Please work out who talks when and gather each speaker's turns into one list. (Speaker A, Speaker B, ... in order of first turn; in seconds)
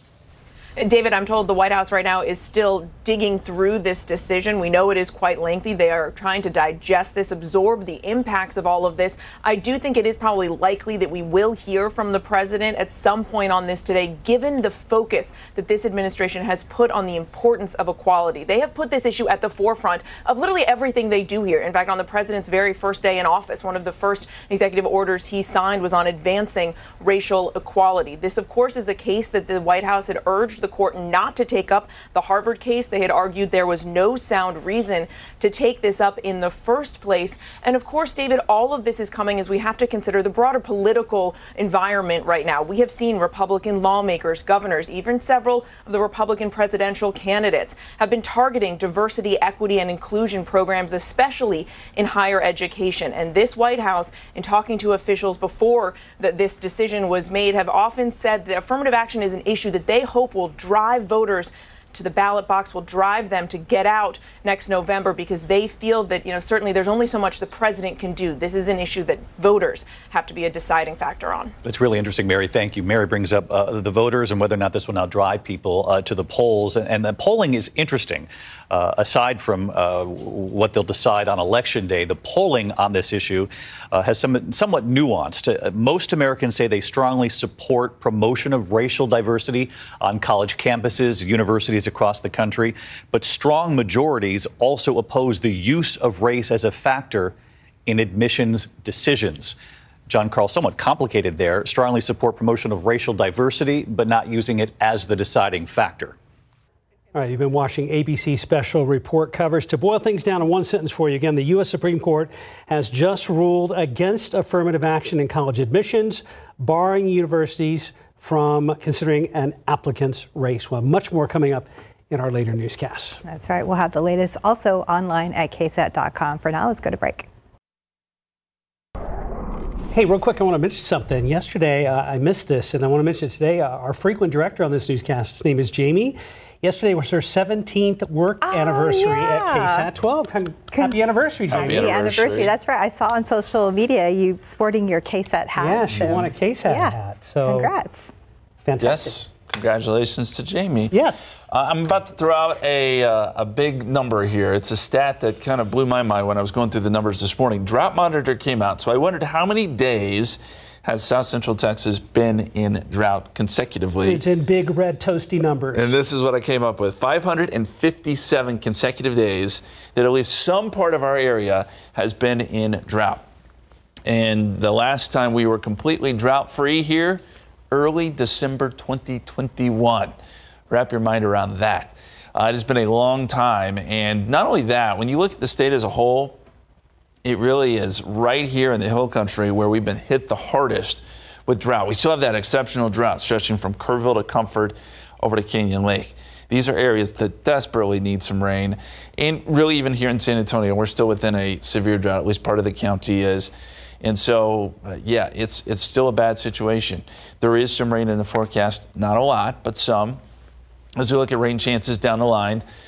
Speaker A: 0.8-71.5
Speaker B: 71.6-97.3, 97.9-99.5, 100.1-106.1
Speaker C: 107.1-123.2, 129.9-142.0, 145.6-147.7, 148.6-149.2, 150.9-151.4, 164.0-165.9
Speaker D: 123.2-127.3, 138.4-139.9, 141.5-148.1
Speaker E: 141.5-142.5, 148.8-150.9, 151.5-164.2, 165.7-173.2, 174.1-180.2, 180.7-186.4, 187.2-210.2, 211.0-212.6